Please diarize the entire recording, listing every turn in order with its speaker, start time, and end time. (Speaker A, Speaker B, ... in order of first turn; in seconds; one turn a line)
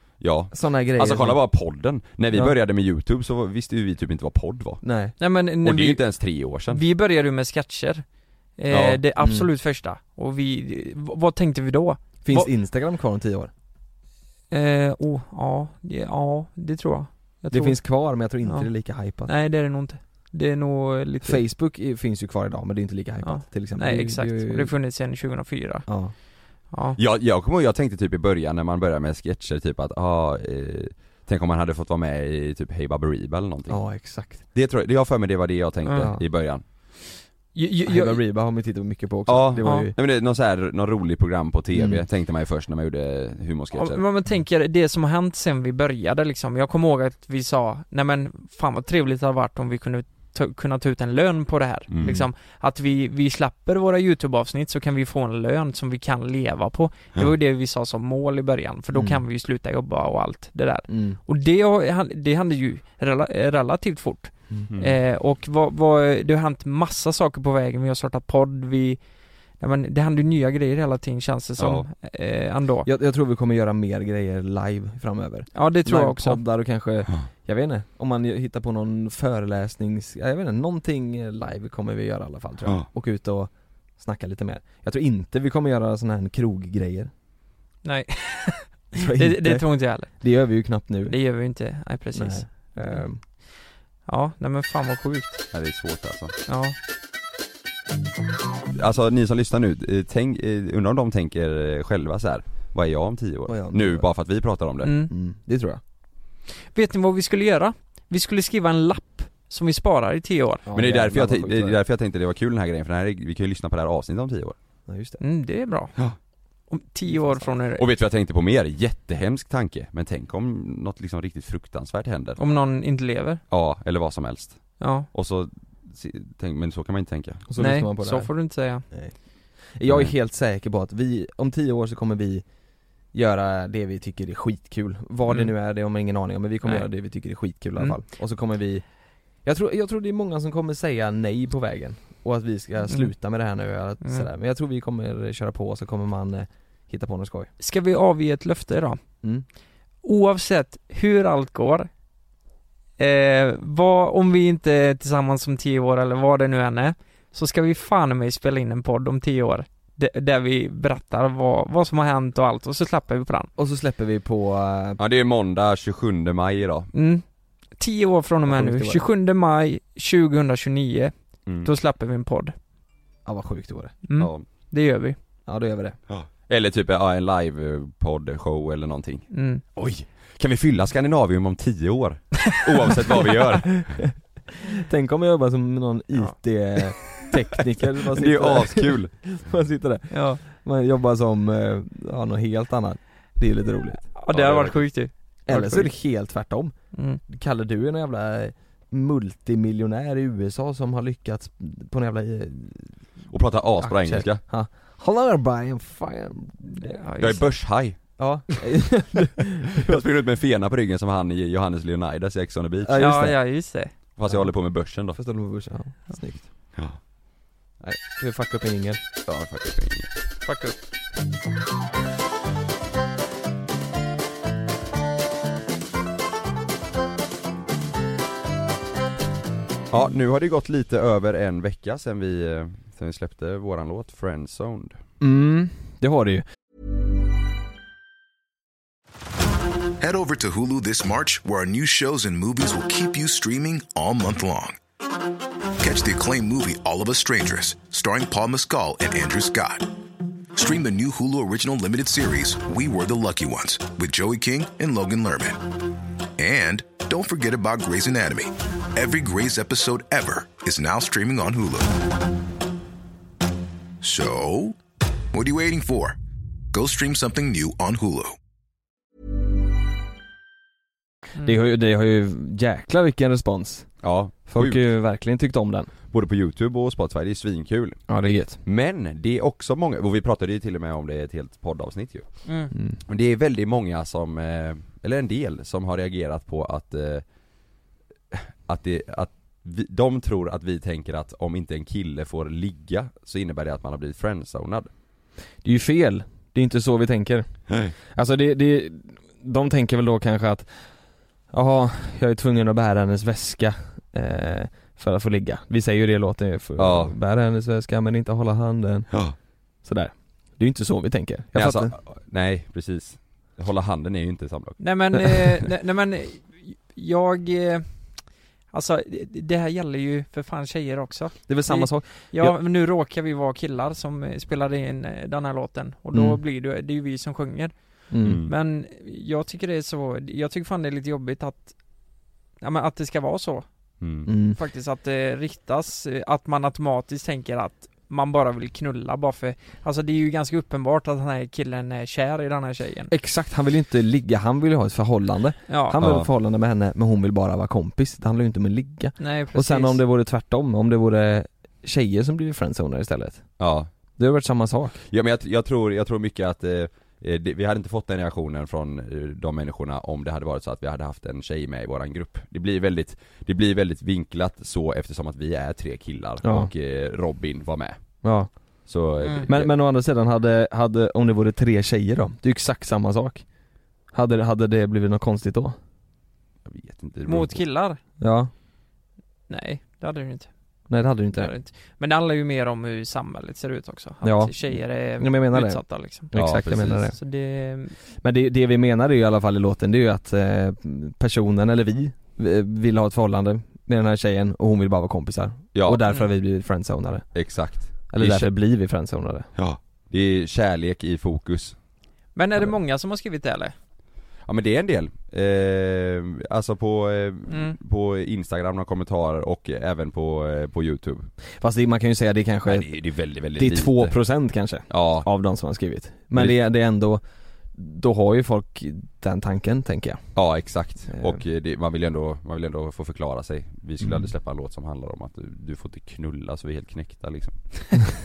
Speaker A: 0.2-4.8
Speaker B: 0.5-1.4
Speaker B: 4.8-5.1
Speaker C: 5.2-8.0
Speaker A: 5.6-6.8
Speaker C: 8.6-12.5
Speaker A: 8.7-9.0
Speaker B: 9.2-9.5
Speaker B: 12.2-13.5
Speaker C: 14.5-18.7
Speaker B: 17.5-19.3
Speaker C: 19.2-21.4
Speaker B: 21.2-24.7
Speaker C: 23.2-26.2
Speaker B: 25.9-26.1
Speaker C: 26.7-27.0
Speaker A: 26.9-36.6
Speaker B: 33.7-34.4
Speaker B: 36.0-36.2
Speaker C: 37.5-38.2
Speaker B: 37.8-39.9
Speaker A: 39.3-44.0
Speaker C: 39.6-39.9
Speaker B: 41.7-42.0
Speaker C: 43.7-69.0
Speaker A: 51.9-52.2
Speaker B: 58.9-59.2
Speaker B: 60.9-61.2
Speaker A: 64.7-65.0
Speaker C: 69.6-72.9
Speaker A: 71.6-71.9
Speaker B: 72.8-87.1
Speaker C: 75.5-76.4
Speaker C: 87.8-90.2
Speaker B: 89.0-91.1
Speaker C: 91.0-93.0
Speaker B: 92.1-93.2
Speaker C: 94.1-95.4
Speaker A: 95.5-96.3
Speaker C: 96.5-96.7
Speaker A: 98.7-104.9
Speaker B: 103.5-104.0
Speaker C: 104.8-105.1
Speaker B: 105.1-105.8
Speaker C: 106.6-110.7
Speaker B: 110.7-111.8
Speaker A: 110.7-114.5
Speaker B: 114.9-115.2
Speaker C: 115.2-116.0
Speaker C: 116.7-117.8
Speaker B: 117.1-117.5
Speaker A: 117.7-122.4
Speaker C: 122.4-123.4
Speaker A: 123.5-127.4
Speaker C: 124.8-125.1
Speaker B: 127.5-128.3
Speaker C: 127.6-128.8
Speaker B: 128.8-132.4
Speaker B: 133.1-138.8
Speaker B: 139.4-147.5
Speaker C: 147.6-149.0
Speaker C: 150.0-151.9
Speaker C: 153.0-163.5
Speaker B: 163.6-165.0
Speaker A: 165.0-166.9
Speaker C: 166.9-167.2
Speaker C: 167.8-172.5
Speaker B: 168.4-169.0
Speaker B: 173.2-173.9
Speaker C: 174.0-175.2
Speaker A: 174.2-174.4
Speaker B: 175.5-176.0
Speaker A: 176.1-184.0
Speaker C: 179.3-179.6
Speaker B: 183.7-184.1
Speaker B: 184.6-194.1
Speaker A: 188.0-189.1
Speaker C: 190.1-190.4
Speaker C: 194.1-195.9
Speaker A: 194.3-194.8
Speaker B: 195.5-196.7
Speaker C: 196.9-197.2
Speaker B: 197.2-202.9
Speaker A: 203.3-204.4
Speaker B: 203.8-207.0
Speaker C: 206.8-207.4
Speaker A: 207.2-208.0
Speaker B: 208.2-210.0
Speaker A: 209.8-213.1
Speaker B: 212.8-213.4
Speaker C: 213.0-213.9
Speaker A: 214.2-215.2
Speaker B: 214.3-216.5
Speaker A: 216.7-217.0
Speaker B: 217.8-219.0
Speaker A: 219.2-220.1
Speaker C: 220.4-220.8
Speaker A: 229.9-235.0
Speaker B: 235.2-236.4
Speaker D: 240.0-244.8
Speaker D: 245.8-249.9
Speaker D: 250.6-255.6
Speaker D: 256.4-261.9
Speaker D: 264.0-264.8
Speaker D: 265.3-266.1
Speaker D: 266.7-268.4
Speaker B: 271.4-273.9
Speaker A: 274.0-274.8
Speaker B: 274.4-275.9
Speaker A: 276.1-278.1
Speaker B: 278.1-278.6
Speaker A: 278.6-282.4
Speaker C: 282.5-282.7
Speaker B: 282.7-283.0
Speaker A: 283.1-287.2
Speaker A: 288.3-294.9
Speaker B: 295.6-297.5
Speaker A: 297.7-297.9
Speaker B: 298.0-300.7
Speaker B: 301.5-309.1
Speaker A: 306.8-307.1
Speaker B: 309.8-311.9
Speaker A: 311.5-314.8
Speaker C: 314.8-327.7
Speaker B: 321.5-322.5
Speaker B: 326.1-326.4
Speaker B: 328.1-328.4
Speaker A: 328.2-328.5
Speaker C: 328.4-331.8
Speaker C: 332.6-333.6
Speaker A: 334.0-334.3
Speaker B: 334.2-334.6
Speaker C: 334.5-343.1
Speaker B: 343.1-353.4
Speaker C: 345.7-346.0
Speaker A: 346.0-346.3
Speaker C: 349.2-350.0
Speaker A: 353.6-353.9
Speaker B: 354.2-355.0
Speaker A: 355.1-368.0
Speaker B: 366.4-366.7
Speaker B: 368.2-368.9
Speaker A: 368.9-369.7
Speaker C: 369.2-369.5
Speaker B: 369.5-373.4
Speaker B: 374.1-375.8
Speaker A: 376.6-377.6
Speaker C: 377.2-378.0
Speaker B: 378.2-378.5
Speaker C: 379.5-380.5
Speaker B: 380.9-381.5
Speaker C: 381.4-386.3
Speaker B: 384.2-387.1
Speaker A: 386.3-387.1
Speaker C: 387.1-387.9
Speaker B: 388.2-397.2
Speaker A: 395.7-396.0
Speaker A: 397.3-398.5
Speaker B: 398.1-399.5
Speaker A: 399.5-401.8
Speaker C: 402.4-403.7
Speaker A: 404.4-411.3
Speaker C: 407.5-407.8
Speaker B: 411.6-412.9
Speaker A: 412.6-414.1
Speaker B: 413.5-417.2
Speaker A: 414.9-415.3
Speaker B: 417.7-420.2
Speaker A: 420.3-427.8
Speaker B: 421.1-421.4
Speaker B: 424.0-424.3